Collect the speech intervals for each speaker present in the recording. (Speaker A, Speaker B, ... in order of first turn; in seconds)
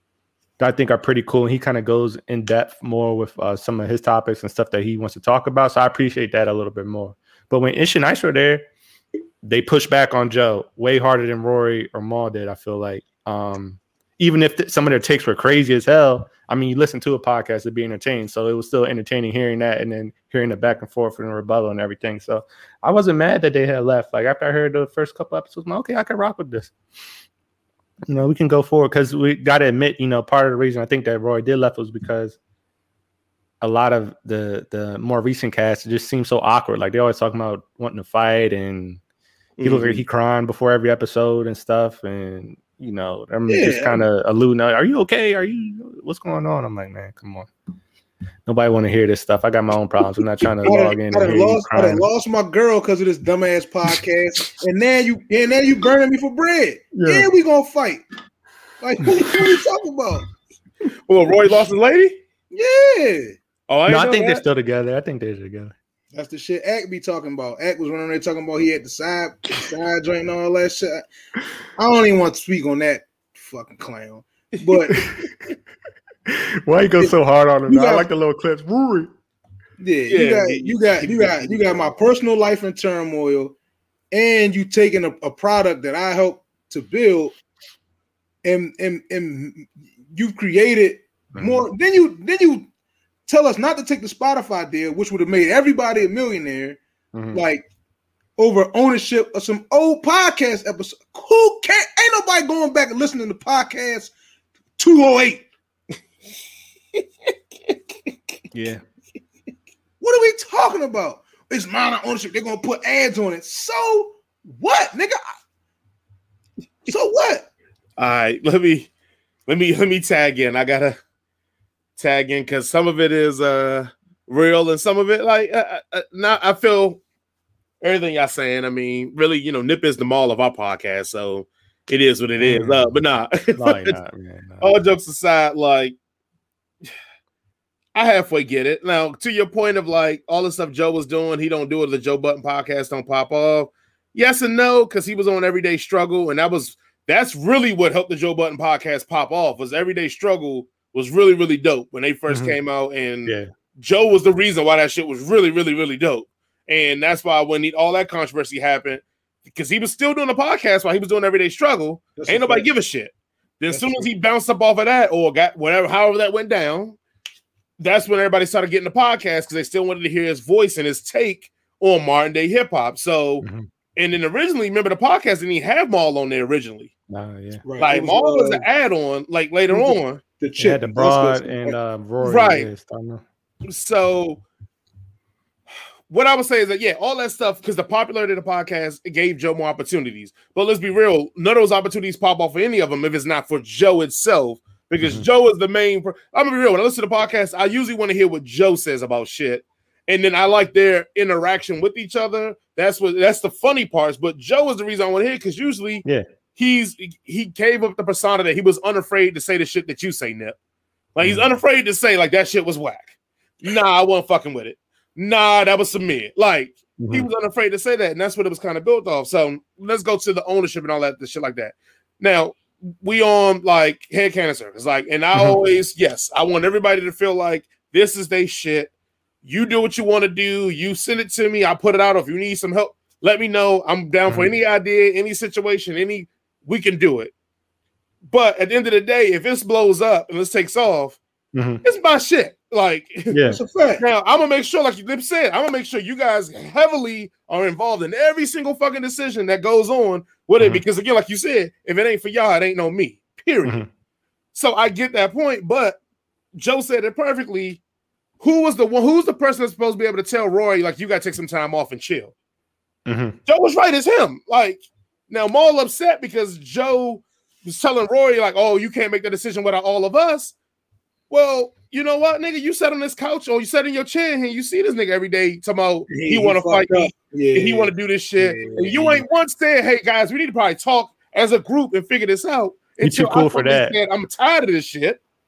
Speaker A: 0.6-8.7, 9.4-26.7, 28.1-32.4, 33.6-39.0, 39.6-47.5, 48.5-52.0, 56.9-57.3, 63.9-65.7, 76.3-79.1, 91.3-91.7, 97.1-97.4, 108.5-108.8, 132.4-132.9, 133.6-134.8, 152.3-152.6, 173.4-173.7, 177.1-177.6, 180.6-183.2, 217.0-217.3, 241.5-241.8, 243.3-243.6, 263.1-263.4, 283.0-284.0
Speaker B: 39.6-40.0, 61.1-62.2, 63.7-64.4, 80.1-81.8, 118.0-118.9, 119.5-121.0, 122.0-127.0, 127.8-134.0, 134.6-135.9, 137.9-167.0, 167.8-173.4, 174.0-176.9, 177.8-180.2, 182.2-182.7, 183.7-184.4, 186.1-206.1, 206.6-210.6, 211.2-228.9, 229.4-237.3, 238.3-241.2, 241.8-243.4, 244.0-253.8, 254.5-256.0, 256.6-257.8, 258.4-262.3, 263.5-270.6, 271.3-285.2
Speaker C: 43.5-44.0, 50.6-58.0, 58.8-60.3, 62.5-63.4, 66.1-71.1, 71.8-75.1, 77.0-78.1, 79.8-83.5, 84.1-87.3, 88.4-92.7, 93.3-96.8, 97.3-97.6, 98.4-104.1, 104.8-105.5, 110.0-115.2, 116.9-117.5, 162.2-162.7, 163.7-164.0, 177.7-178.7, 179.7-181.8, 243.5-244.0, 276.1-279.2